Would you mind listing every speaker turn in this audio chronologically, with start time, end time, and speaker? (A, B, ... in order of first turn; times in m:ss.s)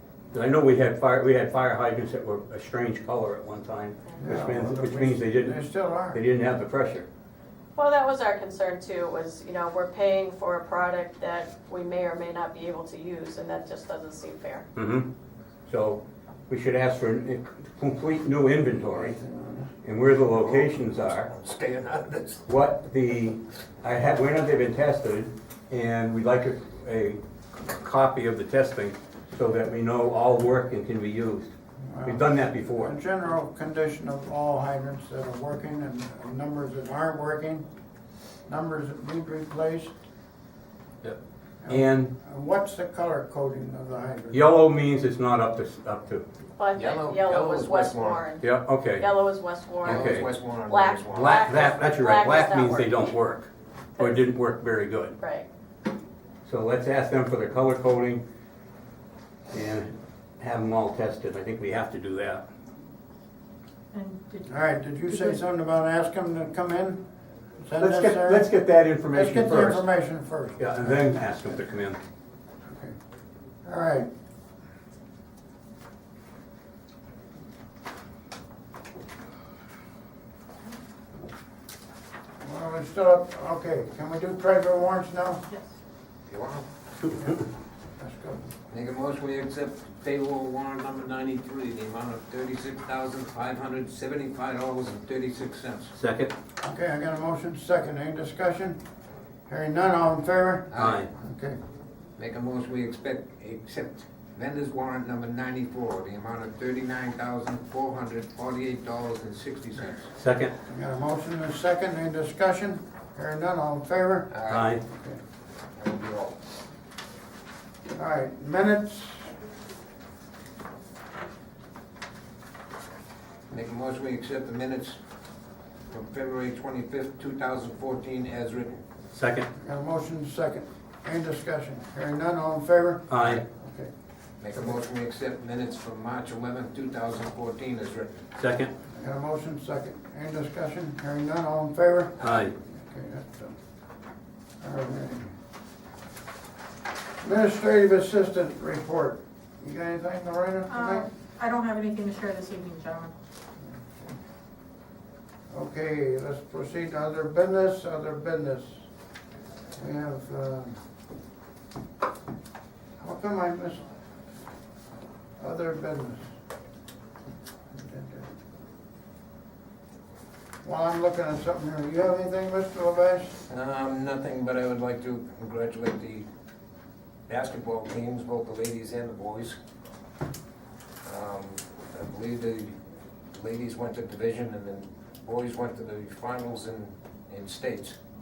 0:00.3-0:05.6 A
0:04.2-0:06.2 B
0:06.1-0:07.1 A
0:07.8-0:14.7 C
0:14.8-0:15.1 A
0:15.7-0:19.2 A
0:19.0-0:19.7 B
0:19.8-0:21.3 A
0:20.4-0:22.4 D
0:22.5-0:31.5 A
0:31.9-0:37.6 B
0:32.0-0:32.9 A
0:38.5-0:40.0 B
0:41.6-0:44.5 B
0:41.7-0:42.1 A
0:44.3-0:46.2 A
0:46.6-0:53.1 C
0:46.8-0:48.3 D
0:48.4-0:49.1 A
0:49.8-0:51.7 D
0:49.8-0:50.3 A
0:51.1-0:55.2 A
0:54.0-0:54.3 C
0:55.2-0:55.5 C
0:56.5-0:58.2 A
0:59.5-1:02.4 A
1:03.9-1:04.5 E
1:04.5-1:07.0 B
1:05.0-1:05.4 E
1:07.6-1:08.5 B
1:07.8-1:09.9 A
1:09.1-1:11.4 B
1:10.6-1:12.0 A
1:12.7-1:13.0 B
1:13.6-1:14.1 B
1:22.4-1:25.4 B
1:26.3-1:26.7 D
1:27.1-1:27.4 B
1:28.0-1:28.5 B
1:28.7-1:35.9 D
1:35.9-1:36.3 A
1:36.6-1:38.8 B
1:39.5-1:41.6 B
1:40.7-1:41.1 D
1:40.8-1:41.1 A
1:42.2-1:50.1 D
1:50.2-1:50.6 A
1:50.7-1:55.2 B
1:54.3-1:54.6 D
1:54.5-1:54.8 A
1:55.8-1:56.4 D
1:57.9-1:59.3 B
2:03.5-2:05.0 D
2:05.9-2:08.8 D
2:09.1-2:09.5 A
2:09.6-2:13.9 B
2:13.1-2:13.4 A
2:14.4-2:18.3 D
2:18.4-2:18.7 A
2:18.9-2:23.5 B
2:22.2-2:22.5 D
2:22.2-2:22.6 A
2:24.6-2:25.3 B
2:27.2-2:31.1 B
2:30.7-2:33.1 E
2:35.5-2:38.9 B
2:39.8-2:40.8 B
2:43.0-2:43.8 B
2:45.4-2:46.3 B
2:47.7-2:48.3 B
2:50.6-2:53.4 B
2:53.5-2:56.3 D
2:57.3-2:59.6 D
3:01.0-3:02.8 D
3:03.3-3:08.0 D